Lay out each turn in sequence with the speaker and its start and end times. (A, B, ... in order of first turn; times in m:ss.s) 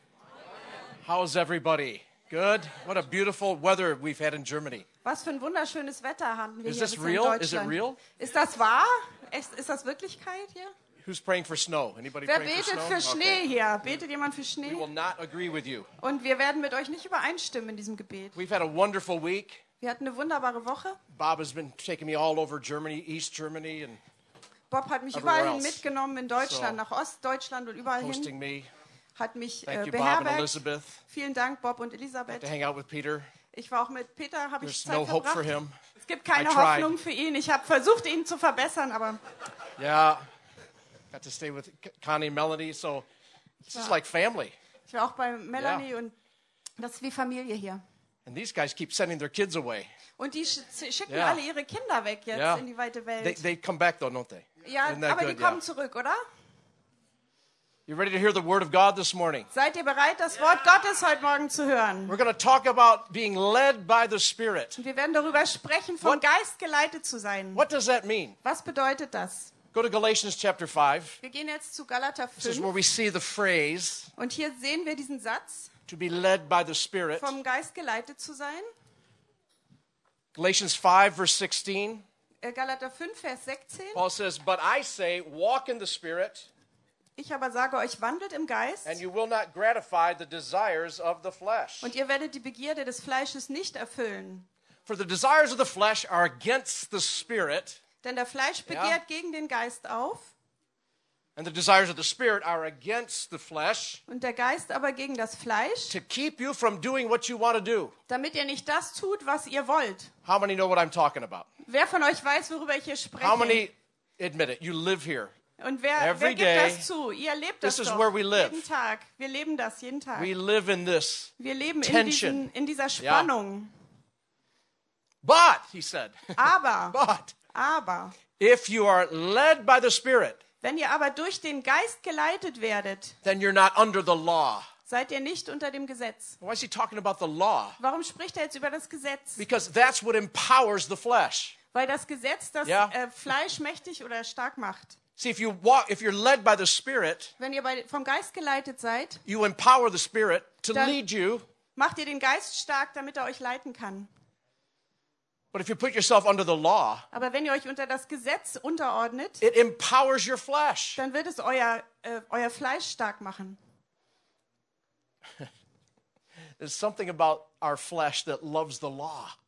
0:01.0-0:04.8 A
0:05.0-0:10.7 B
0:06.6-0:08.0 A
0:11.0-0:13.4 A
0:12.2-0:14.9 B
0:14.6-0:15.9 A
0:16.0-0:18.4 B
0:18.4-0:19.6 A
0:19.8-0:21.0 B
0:21.1-0:24.0 A
0:24.7-0:28.3 B
0:25.1-0:25.8 A
0:26.4-0:26.8 A
0:27.9-0:28.7 A
0:29.2-0:30.6 B
0:29.7-0:31.0 A
0:31.1-0:32.5 B
0:32.3-0:33.3 A
0:33.5-0:35.5 B
0:34.6-0:35.7 A
0:36.0-0:39.2 B
0:36.3-0:36.9 A
0:39.8-0:40.2 A
0:41.1-0:43.1 A
0:43.6-0:44.5 A
0:44.9-0:46.1 B
0:45.6-0:45.8 A
0:46.8-0:47.8 B
0:48.2-0:49.9 A
0:50.2-0:53.4 B
0:51.1-0:51.4 A
0:52.3-0:52.6 A
0:53.2-0:55.6 A
0:54.6-0:56.2 B
0:57.9-0:59.5 A
0:59.5-1:02.1 B
1:02.1-1:04.8 A
1:04.8-1:07.6 B
1:07.5-1:08.4 A
1:08.4-1:09.5 B
1:09.7-1:11.2 A
1:11.2-1:12.7 B
1:12.4-1:14.1 A
1:14.2-1:15.7 B
1:15.9-1:17.4 A
1:17.2-1:18.7 B
1:20.3-1:22.0 A
1:22.4-1:24.0 B
1:23.9-1:26.5 A
1:27.2-1:29.0 B
1:28.8-1:31.9 A
1:31.8-1:34.5 B
1:34.8-1:37.8 A
1:38.0-1:40.3 B
1:38.6-1:39.0 A
1:41.4-1:44.0 A
1:44.1-1:46.0 B
1:45.9-1:47.9 A
1:48.1-1:50.1 B
1:50.2-1:51.5 A
1:51.6-1:53.6 B
1:53.2-1:55.3 A
1:55.6-2:00.3 B
1:56.0-1:56.9 A
1:57.6-1:58.6 A
2:00.2-2:02.5 A
2:01.4-2:03.7 B
2:03.0-2:03.3 A
2:05.2-2:07.3 A
2:06.4-2:07.0 B
2:07.5-2:08.2 B
2:08.4-2:10.4 A
2:10.6-2:13.2 B
2:13.2-2:14.7 A
2:14.9-2:16.4 B
2:16.4-2:17.8 A
2:17.8-2:19.4 B
2:19.4-2:21.6 A
2:21.7-2:25.0 B
2:22.6-2:22.9 A
2:25.2-2:27.3 A
2:27.4-2:29.2 B
2:29.2-2:31.4 A
2:31.8-2:34.1 B
2:35.5-2:37.0 A
2:37.1-2:39.4 B
2:39.4-2:41.0 A
2:41.0-2:43.6 B
2:46.6-2:49.3 A